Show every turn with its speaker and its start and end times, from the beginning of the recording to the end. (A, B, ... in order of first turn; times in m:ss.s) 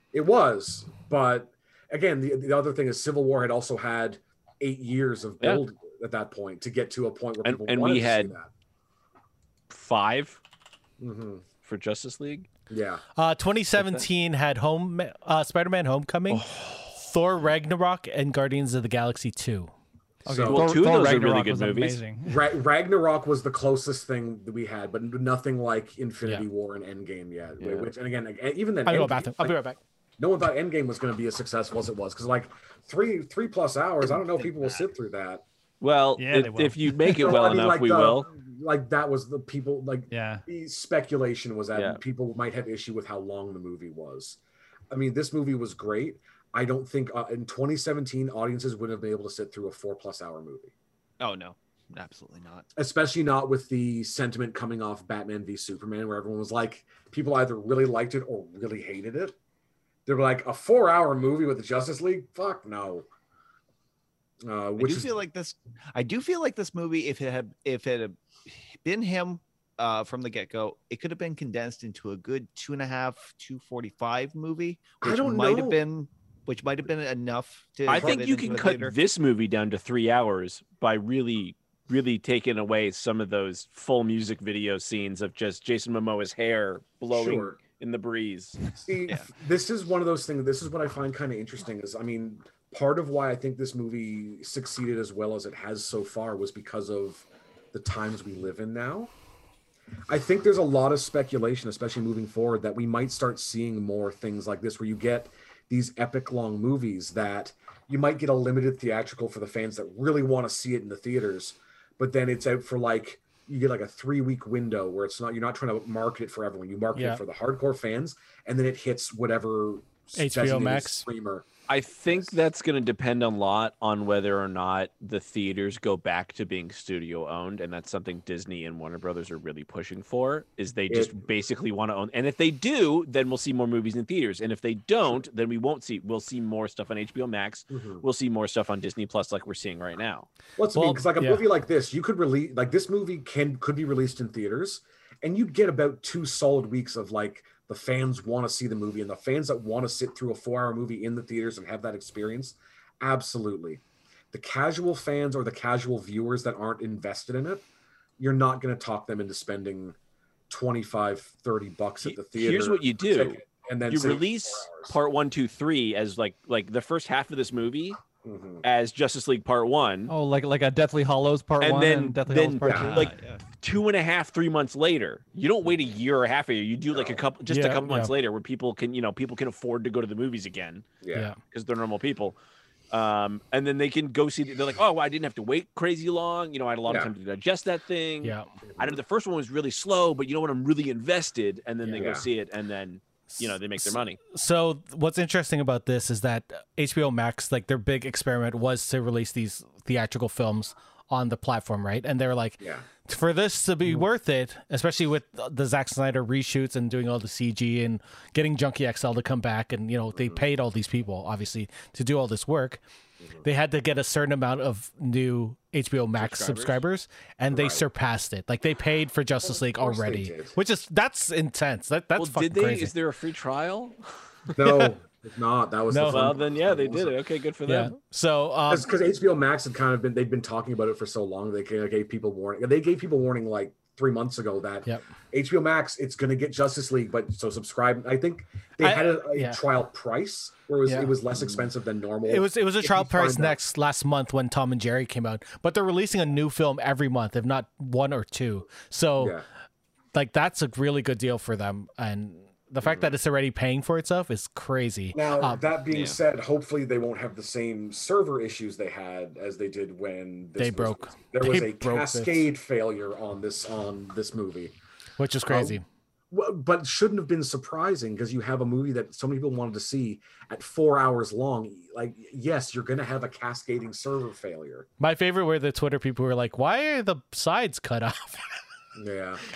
0:00.1-0:08.5 A
0:07.4-0:08.3 B
0:09.7-0:10.4 B
0:11.0-0:11.4 A
0:11.6-0:12.5 B
0:12.7-0:13.0 A
0:13.2-0:19.7 C
0:13.8-0:14.0 B
0:16.3-0:16.9 B
0:20.2-0:22.4 D
0:20.3-0:20.7 A
0:20.5-0:22.0 B
0:22.2-0:29.6 A
0:27.6-0:27.9 B
0:28.8-0:29.8 C
0:30.2-0:35.4 A
0:35.8-0:38.3 B
0:36.2-0:37.2 D
0:37.2-0:44.4 A
0:40.1-0:40.4 D
0:41.7-0:42.0 B
0:44.9-0:50.7 A
0:51.2-0:52.7 E
0:52.7-0:59.4 A
1:00.0-1:03.1 A
1:04.4-1:05.1 A
1:04.8-1:19.0 E
1:15.0-1:15.8 A
1:17.9-1:28.6 B
1:17.9-1:18.3 A
1:27.1-1:27.6 A
1:28.7-1:39.1 A
1:40.1-2:01.5 A
1:56.9-1:57.2 C
2:00.2-2:01.0 C
2:01.7-2:20.3 B
2:10.9-2:11.1 A
2:17.7-2:18.0 A
2:20.6-2:33.8 A
2:20.7-2:21.4 C
2:34.3-2:37.6 A
2:38.2-2:40.0 A
2:40.5-2:44.9 A
2:42.0-2:48.0 B
2:48.2-2:48.6 A
2:48.6-2:50.1 B
2:50.1-2:53.1 D
2:51.6-3:02.4 B
2:52.6-2:52.9 A
2:52.6-2:53.4 E
2:56.9-2:57.2 A
2:57.5-2:58.1 C
3:01.0-3:01.3 A
3:02.9-3:14.2 B
3:06.9-3:07.1 A
3:08.2-3:08.5 C
3:08.7-3:09.0 A
3:12.0-3:12.2 A
3:13.4-3:32.8 C
3:22.6-3:22.8 A
3:30.1-3:30.4 A
3:33.4-3:42.9 C
3:36.2-3:36.8 B
3:37.5-3:37.8 A
3:39.4-3:40.6 A
3:42.2-3:44.6 B
3:44.5-3:47.2 A
3:45.9-3:46.3 C
3:46.1-3:47.9 B
3:47.6-3:48.9 C
3:48.7-4:03.6 A
3:58.8-3:59.6 C
4:00.8-4:01.1 C
4:02.2-4:09.4 C
4:09.2-4:09.4 A
4:10.1-4:15.6 C
4:12.8-4:13.1 A
4:15.1-4:24.7 A
4:15.9-4:16.2 B
4:20.6-4:22.4 C
4:25.2-4:25.8 C
4:25.5-4:34.9 A
4:35.0-4:38.5 C
4:39.0-4:39.4 A